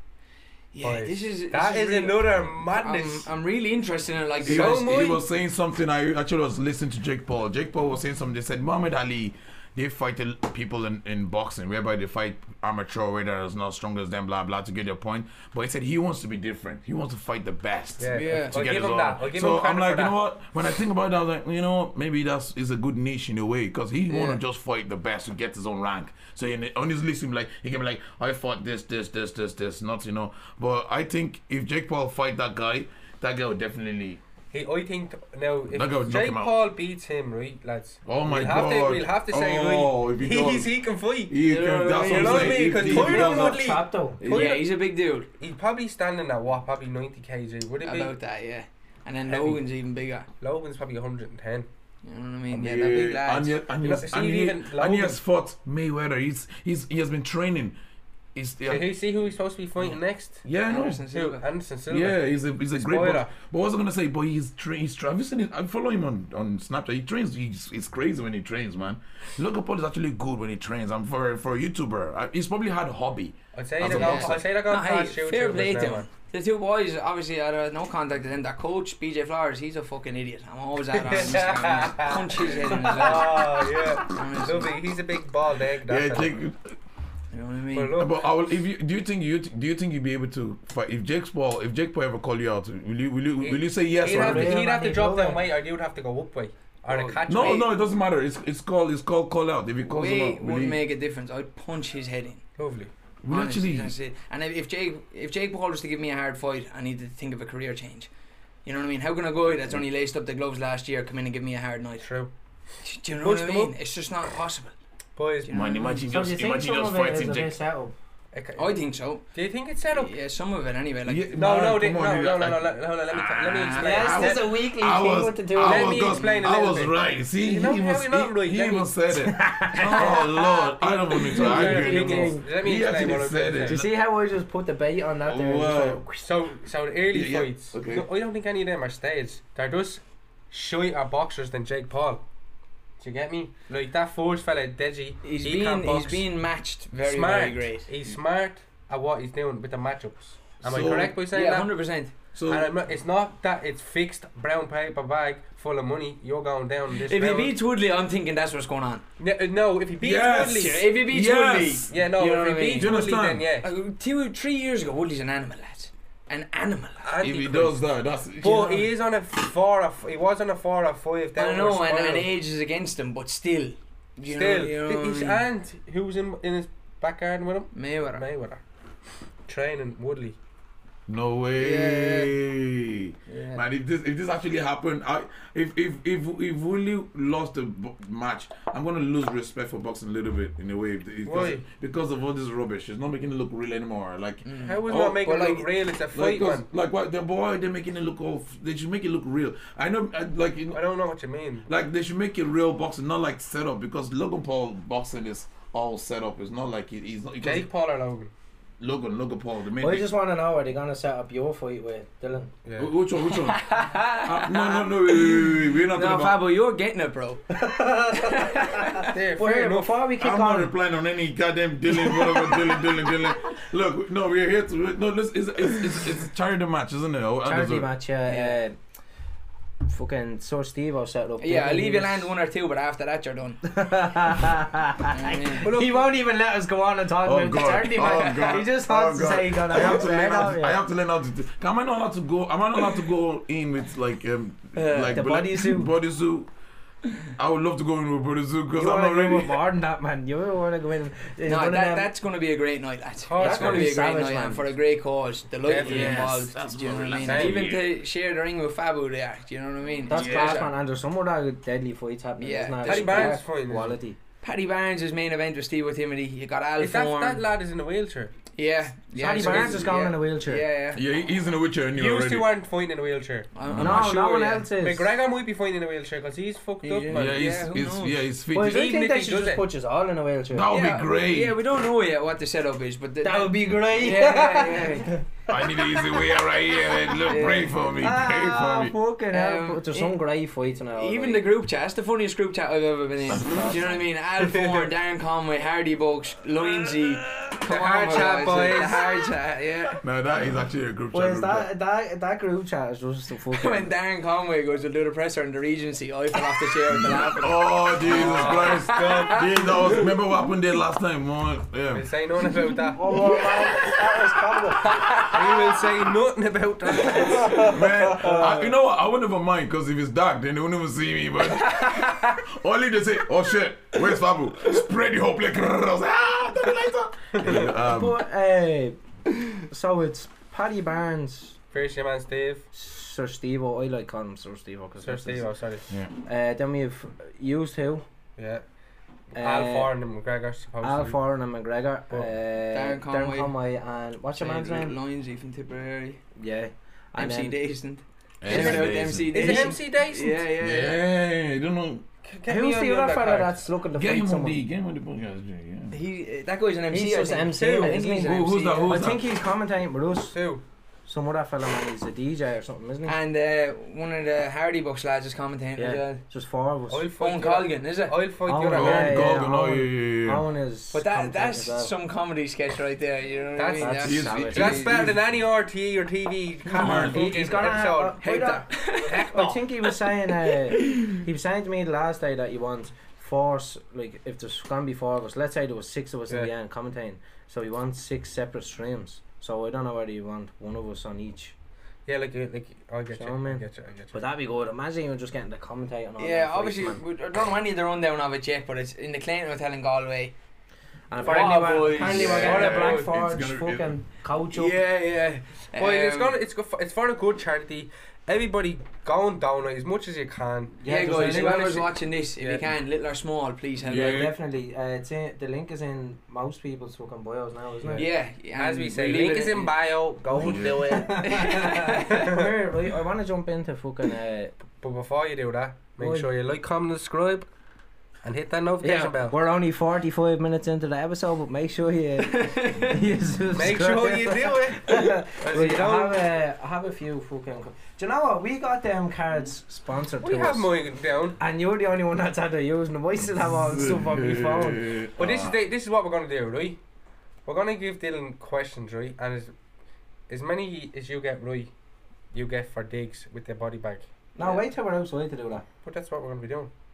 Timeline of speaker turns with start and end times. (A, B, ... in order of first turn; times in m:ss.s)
0:00.7-0:05.2 A
0:00.8-0:03.3 B
0:04.4-0:05.2 B
0:04.4-0:34.2 C
0:18.0-0:20.1 B
0:18.1-0:18.7 A
0:24.1-0:24.4 A
0:34.5-0:41.3 B
0:35.7-0:36.5 C
0:38.0-0:40.7 C
0:41.3-0:43.6 C
0:41.4-0:43.0 A
0:42.0-0:44.6 B
0:42.8-0:44.2 D
0:44.2-0:44.5 C
0:44.2-0:45.3 A
0:45.4-0:48.1 B
0:47.8-0:50.3 A
0:49.3-0:49.6 B
0:50.4-0:51.7 B
0:52.0-0:53.5 A
0:52.5-0:57.7 C
0:53.8-0:55.2 B
0:58.3-0:58.9 C
0:58.6-1:00.4 B
1:00.4-1:01.0 C
1:00.7-1:01.4 A
1:01.1-1:02.2 B
1:01.9-1:14.4 C
1:02.7-1:03.3 B
1:13.5-1:16.1 B
1:13.8-1:23.5 A
1:20.9-1:26.4 B
1:24.1-1:24.8 A
1:25.8-1:26.7 C
1:27.3-1:27.9 A
1:27.7-1:28.2 B
1:28.0-1:34.6 C
1:33.4-1:37.7 B
1:34.0-1:35.5 D
1:36.9-1:40.8 C
1:39.9-1:42.4 A
1:42.6-1:42.9 B
1:43.2-1:43.9 C
1:43.3-1:48.1 A
1:48.6-1:52.1 A
1:52.0-1:52.3 B
1:52.8-1:54.7 A
1:53.2-1:53.7 B
1:55.2-1:55.6 B
1:55.4-1:55.9 A
1:55.5-1:57.6 C
1:56.1-1:57.9 D
1:58.3-1:58.7 B
1:58.6-1:59.3 A
1:59.3-2:00.1 B
1:59.9-2:01.4 A
2:01.0-2:13.9 C
2:01.3-2:04.4 B
2:03.5-2:04.0 A
2:03.7-2:06.1 D
2:05.6-2:08.9 B
2:09.2-2:10.6 D
2:09.7-2:10.3 A
2:10.8-2:13.8 B
2:11.1-2:12.5 D
2:13.6-2:16.1 D
2:15.2-2:16.0 C
2:16.2-2:22.2 B
2:17.1-2:18.0 C
2:23.0-2:26.3 B
2:25.2-2:27.9 A
2:26.9-2:31.7 B
2:30.6-2:31.2 C
2:31.3-2:32.1 A
2:32.3-2:32.7 C
2:32.5-2:37.5 B
2:36.9-2:39.0 A
2:39.2-2:40.8 B
2:40.0-2:41.9 C
2:40.5-2:42.9 A
2:41.9-2:43.7 B
2:42.8-2:43.4 C
2:43.6-2:47.1 A
2:47.0-2:47.8 B
2:47.2-2:48.9 C
2:48.4-2:52.3 B
2:51.4-2:55.4 A
2:54.2-2:58.6 B
2:57.7-2:58.2 A
2:59.4-3:00.4 B
3:01.1-3:20.8 C
3:01.6-3:02.3 A
3:03.3-3:03.6 A
3:11.2-3:11.6 B
3:14.4-3:14.9 A
3:14.6-3:16.7 B
3:20.7-3:21.7 B
3:21.6-3:27.7 C
3:27.4-3:28.3 B
3:28.8-3:30.1 C
3:29.8-3:32.5 D
3:32.6-3:32.9 B
3:32.8-3:36.4 C
3:33.3-3:37.4 A
3:37.5-3:40.7 D
3:38.2-3:38.9 A
3:39.0-3:39.9 B
3:40.2-3:47.9 C
3:47.4-3:48.8 D
3:49.8-3:52.3 D
3:51.4-3:53.6 A
3:53.6-4:00.8 D
3:55.1-3:55.7 A
3:55.6-3:56.0 B
3:57.2-4:06.5 C
4:04.7-4:05.2 A
4:05.1-4:05.9 D
4:07.4-4:09.6 C
4:08.7-4:12.1 D
4:11.4-4:20.7 A
4:13.2-4:14.0 B
4:13.4-4:14.7 D
4:15.6-4:16.3 B
4:15.8-4:17.9 C
4:17.2-4:17.6 B
4:20.1-4:24.2 D
4:20.1-4:20.7 C
4:22.4-4:23.4 A
4:22.8-4:24.0 B
4:24.4-4:27.5 A
4:26.8-4:28.3 B
4:28.6-4:31.0 A
4:29.1-4:30.6 D
4:29.4-4:29.8 B
4:30.9-4:32.5 C
4:31.9-4:33.5 B
4:33.5-4:34.7 A
4:33.6-4:34.1 C
4:33.8-4:35.1 D
4:34.8-4:37.4 B
4:36.8-4:38.2 A
4:37.1-4:38.8 C
4:38.5-4:40.7 D
4:38.6-4:39.6 B
4:40.5-4:41.5 C
4:40.7-4:45.1 A
4:43.2-4:45.2 D
4:45.5-4:48.9 C
4:47.2-4:47.8 A
4:48.0-4:51.4 D
4:49.3-4:50.2 A
4:50.9-5:00.0 A
4:53.3-4:54.0 D
4:53.3-4:53.8 C
4:54.4-4:54.9 B
4:57.6-4:59.0 B
4:58.5-4:59.0 C
5:00.0-5:01.7 C
5:01.1-5:03.9 D
5:03.5-5:09.4 A
5:06.9-5:12.1 C
5:08.0-5:10.0 B
5:11.9-5:13.0 B
5:12.9-5:15.2 D
5:15.2-5:18.6 B
5:17.2-5:18.7 D
5:17.5-5:28.2 C
5:21.8-5:22.3 A
5:27.4-5:27.7 B
5:27.5-5:29.0 D
5:29.5-5:31.6 D
5:31.7-5:32.7 B
5:32.7-5:35.5 D
5:35.0-5:35.8 B
5:36.2-5:38.0 D
5:38.4-5:38.6 B
5:39.3-5:41.2 B
5:39.3-5:39.9 D
5:40.8-5:44.9 D
5:42.7-5:43.5 A
5:44.4-5:46.2 A
5:46.3-5:47.6 D
5:47.2-5:51.0 A
5:48.4-5:49.7 C
5:48.5-5:50.5 B
5:50.6-5:52.0 C
5:52.2-5:53.6 B
5:52.5-5:54.6 D
5:53.9-5:56.0 C
5:55.9-5:59.0 A
5:56.9-6:00.4 D
5:58.2-5:59.3 C
6:00.3-6:00.6 B
6:01.0-6:03.2 D
6:03.1-6:06.2 A
6:05.8-6:07.1 D
6:06.9-6:09.3 B
6:07.2-6:08.2 A
6:08.4-6:11.9 D
6:08.7-6:10.4 C
6:10.9-6:14.8 A
6:13.6-6:18.2 B
6:13.8-6:14.9 D
6:14.0-6:15.2 C
6:16.6-6:31.5 D
6:16.8-6:17.3 C
6:18.2-6:19.3 A
6:19.0-6:19.6 B
6:20.8-6:21.1 A
6:32.0-6:34.2 B
6:33.1-6:37.0 D
6:36.2-6:40.3 A
6:41.1-6:44.8 D
6:41.2-6:43.0 A
6:41.2-6:43.1 B
6:42.0-6:43.9 C
6:44.5-6:46.4 A
6:45.8-6:50.8 B
6:50.8-6:51.9 D
6:50.8-6:54.3 A
6:52.4-6:52.7 B
6:53.8-6:54.3 C
6:53.9-6:58.0 D
6:57.8-7:02.5 B
6:57.9-6:59.8 A
7:00.2-7:04.5 D
7:00.3-7:01.0 C
7:01.2-7:02.3 A
7:04.8-7:07.5 B
7:06.0-7:06.3 D
7:08.2-7:09.4 B
7:08.8-7:20.7 D
7:12.2-7:13.0 A
7:13.5-7:16.2 B
7:20.2-7:21.4 B
7:21.4-7:25.0 D
7:23.5-7:25.6 C
7:25.2-7:26.8 B
7:27.4-7:29.5 B
7:30.3-7:31.7 B
7:32.3-7:34.6 B
7:34.4-7:35.6 D
7:35.8-7:36.7 B